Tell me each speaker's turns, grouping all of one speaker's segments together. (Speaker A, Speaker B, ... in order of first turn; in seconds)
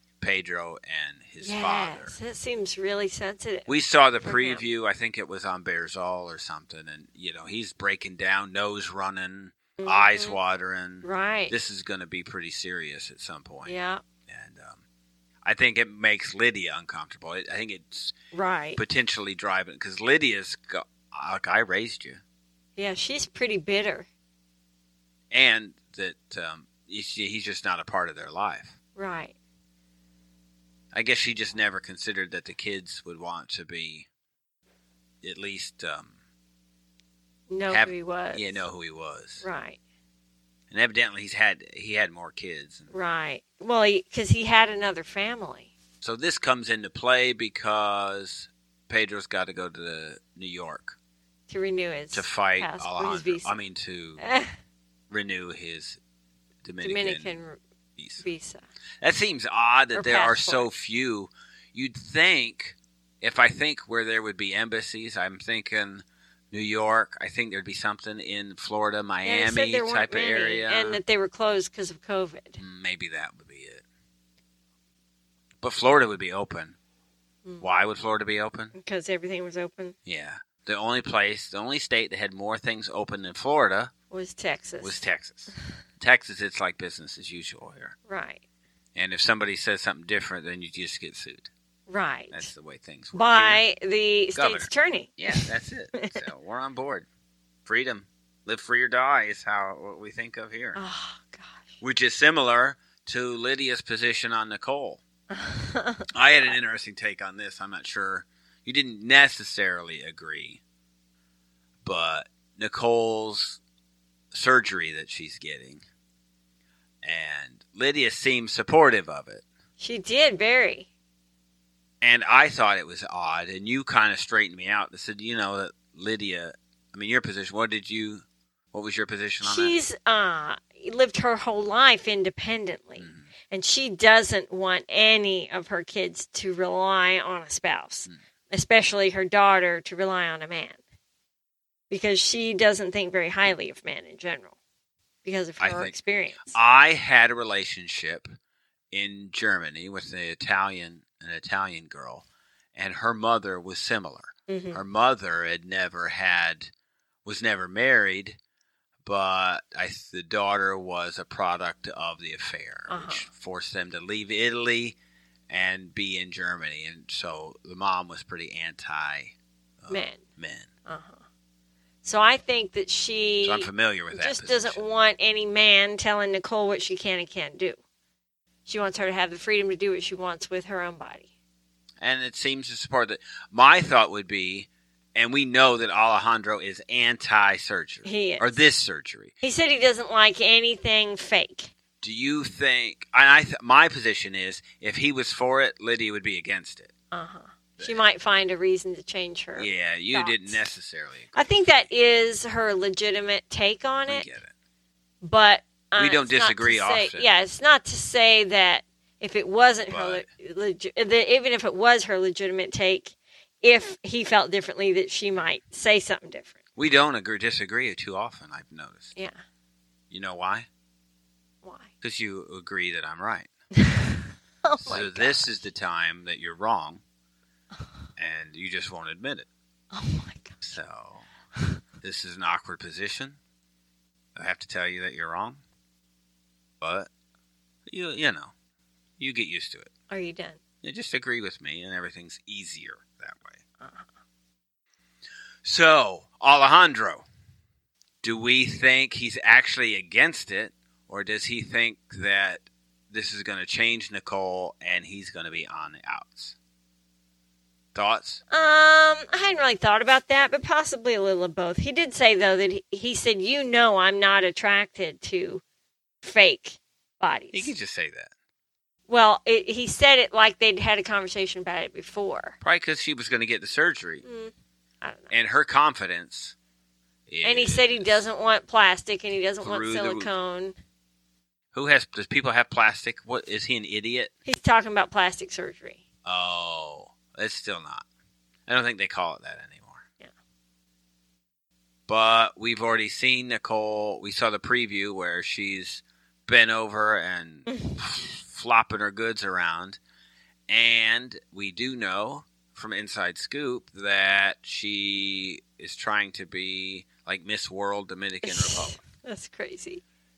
Speaker A: 0.2-2.1, 3.7-13.8, 14.3-14.8, 15.4-18.1, 18.8-22.2, 25.3-28.7, 30.9-34.1, 35.2-36.1, 37.7-39.4, 40.7-42.9, 46.0-51.0, 52.1-54.2, 55.1-56.0, 56.6-57.4, 58.0-58.2, 59.0-71.0, 72.6-73.8, 75.6-76.8, 77.6-78.7, 80.0-83.9, 84.8-87.9, 88.9-91.5, 92.3-93.6, 94.3-97.1, 97.6-100.8, 101.8-105.0, 106.1-110.6, 111.8-113.6, 114.3-115.8, 117.0-119.4, 122.0-129.8, 133.0-133.3, 145.6-145.9, 146.5-148.3, 148.9-156.7, 157.2-158.4, 159.0-165.0, 165.5-170.7, 173.4-174.8, 182.0-189.3, 192.0-196.9, 197.8-198.0, 199.6-201.7, 204.1-204.5, 206.0-207.3, 209.9-210.2, 216.8-219.1, 220.1-220.7, 222.0-223.5, 224.8-227.0, 228.2-229.5, 230.6-231.3, 232.0-233.4, 234.3-235.6, 236.8-237.1, 237.9-238.5, 239.2-239.9, 240.8-243.6, 245.6-247.2, 248.2-256.6, 257.9-258.4, 267.5-268.3, 272.6-274.2, 275.3-276.5, 277.3-278.2, 279.6-280.3, 281.7-284.3, 286.2-288.0, 288.7-290.0, 292.1-300.0, 300.7-309.0
Speaker B: 1.4-3.7, 4.2-4.6, 9.8-10.4, 11.0-11.5, 13.6-14.0, 18.3-18.8, 22.8-24.1, 28.9-29.3, 37.5-38.6, 39.4-39.8, 42.9-45.7, 51.5-53.5, 54.2-54.5, 56.8-57.6, 58.2-58.6, 59.9-60.7, 69.2-72.6, 77.4-77.7, 78.7-79.9, 84.1-85.0, 88.1-88.4, 91.9-92.5, 93.1-95.4, 96.0-96.2, 100.7-101.7, 105.3-106.1, 119.8-120.9, 129.4-140.8, 141.9-144.5, 145.2-146.6, 154.5-154.8, 162.9-163.3, 169.9-170.2, 170.9-171.2, 172.0-177.8, 178.7-181.3, 188.0-188.6, 189.4-191.7, 197.1-200.6, 201.3-204.3, 205.2-216.6, 221.6-221.9, 223.8-225.5, 229.9-230.6, 240.1-240.6, 243.8-244.1, 258.5-265.6, 266.2-267.7, 269.1-272.6, 274.2-275.3, 277.4-280.8, 284.4-286.0, 297.7-298.0, 308.4-310.0